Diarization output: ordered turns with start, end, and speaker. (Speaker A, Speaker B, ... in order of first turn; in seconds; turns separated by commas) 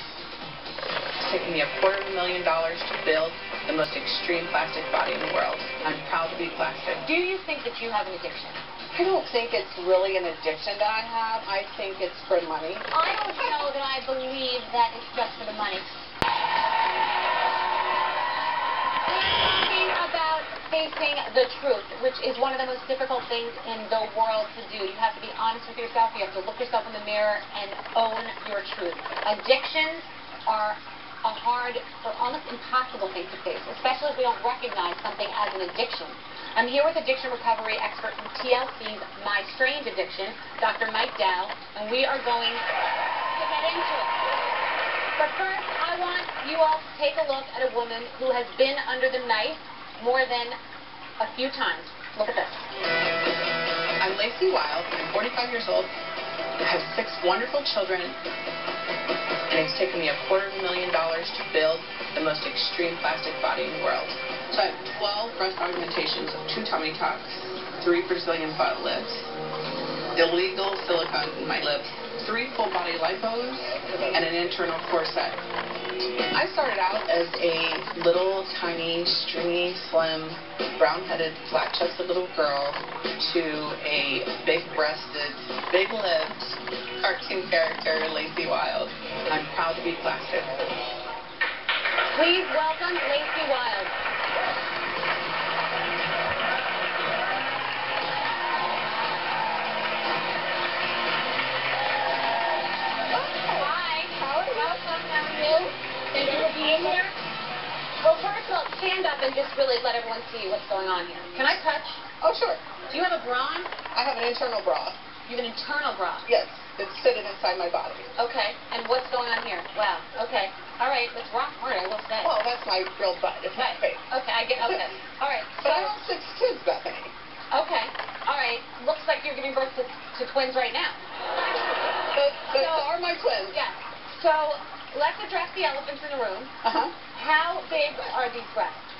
Speaker A: 1.2-7.0, Speaker B: 7.0-8.6, Speaker C: 8.9-13.6, Speaker B: 12.9-15.9, Speaker B: 19.1-42.6, Speaker B: 43.3-44.1, Speaker B: 45.1-50.6, Speaker B: 51.2-52.7, Speaker A: 54.0-55.9, Speaker A: 56.6-58.1, Speaker A: 59.5-69.3, Speaker A: 70.1-75.4, Speaker A: 76.3-90.6, Speaker B: 92.1-93.9, Speaker C: 103.1-104.8, Speaker B: 103.5-107.1, Speaker B: 108.0-112.0, Speaker C: 112.2-112.6, Speaker B: 112.9-113.7, Speaker C: 113.9-115.0, Speaker B: 115.2-116.3, Speaker C: 116.3-118.1, Speaker B: 118.2-122.3, Speaker C: 122.2-124.0, Speaker B: 123.5-125.9, Speaker C: 124.6-124.8, Speaker C: 125.6-127.1, Speaker B: 127.5-132.9, Speaker C: 132.1-133.6, Speaker B: 133.5-136.5, Speaker C: 136.6-136.9, Speaker B: 137.1-138.9